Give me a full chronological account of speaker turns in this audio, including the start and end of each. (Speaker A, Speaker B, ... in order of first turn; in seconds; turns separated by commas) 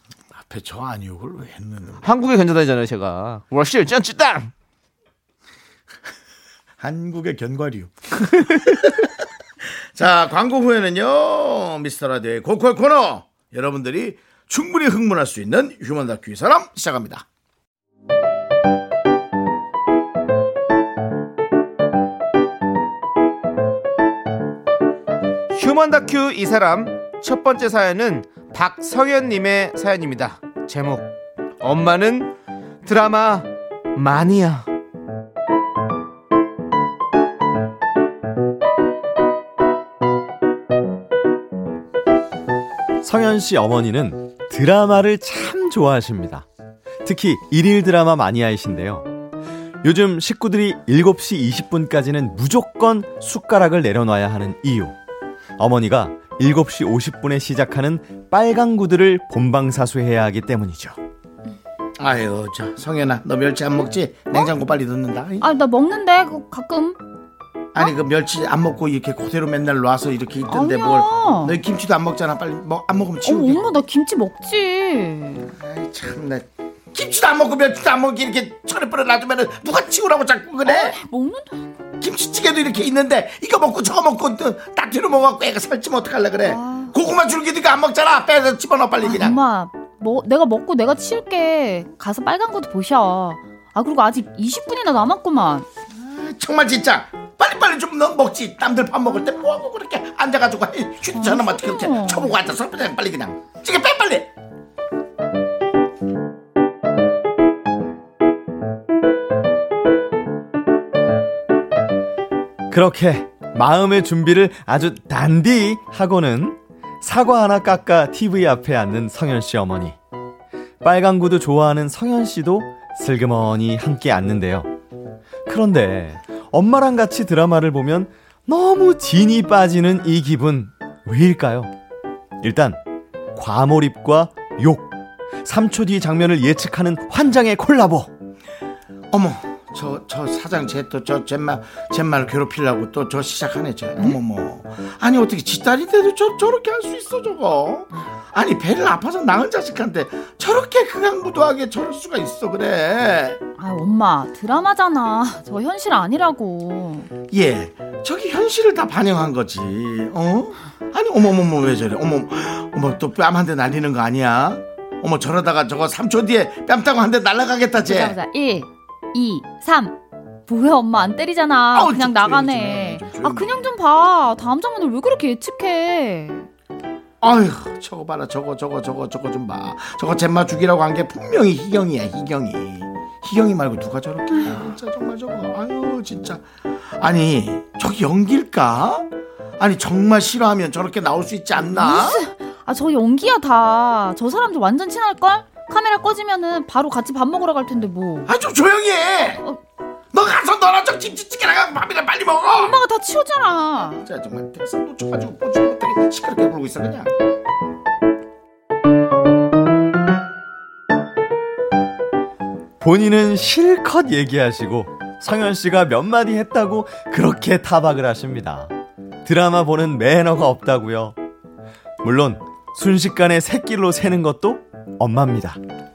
Speaker A: 0.3-2.1, Speaker B: 2.0-4.5, Speaker A: 6.8-9.1, Speaker A: 9.6-17.2, Speaker B: 25.5-32.3, Speaker B: 32.8-34.7, Speaker C: 43.0-46.5, Speaker C: 47.0-49.1, Speaker C: 49.8-55.0, Speaker C: 55.6-61.0, Speaker A: 62.0-65.5, Speaker D: 65.4-67.0, Speaker A: 67.7-73.6, Speaker D: 70.5-71.6, Speaker D: 73.2-75.5, Speaker A: 75.6-81.0, Speaker D: 80.6-81.7, Speaker A: 82.0-89.4, Speaker D: 86.4-87.0, Speaker D: 89.0-95.7, Speaker A: 95.9-104.3, Speaker D: 101.1-102.3, Speaker C: 112.7-120.0, Speaker C: 120.8-124.7, Speaker C: 125.5-131.7, Speaker C: 132.4-132.8, Speaker C: 133.3-138.1, Speaker A: 139.1-153.4, Speaker D: 153.6-157.1, Speaker A: 157.2-168.2, Speaker D: 167.8-176.5, Speaker A: 171.7-173.7, Speaker A: 177.2-192.2, Speaker D: 184.4-184.6, Speaker D: 191.6-198.3, Speaker A: 198.2-199.4, Speaker A: 200.1-202.8, Speaker D: 202.5-204.0, Speaker A: 204.0-207.1, Speaker C: 212.8-218.7, Speaker C: 219.2-221.2, Speaker C: 222.0-225.6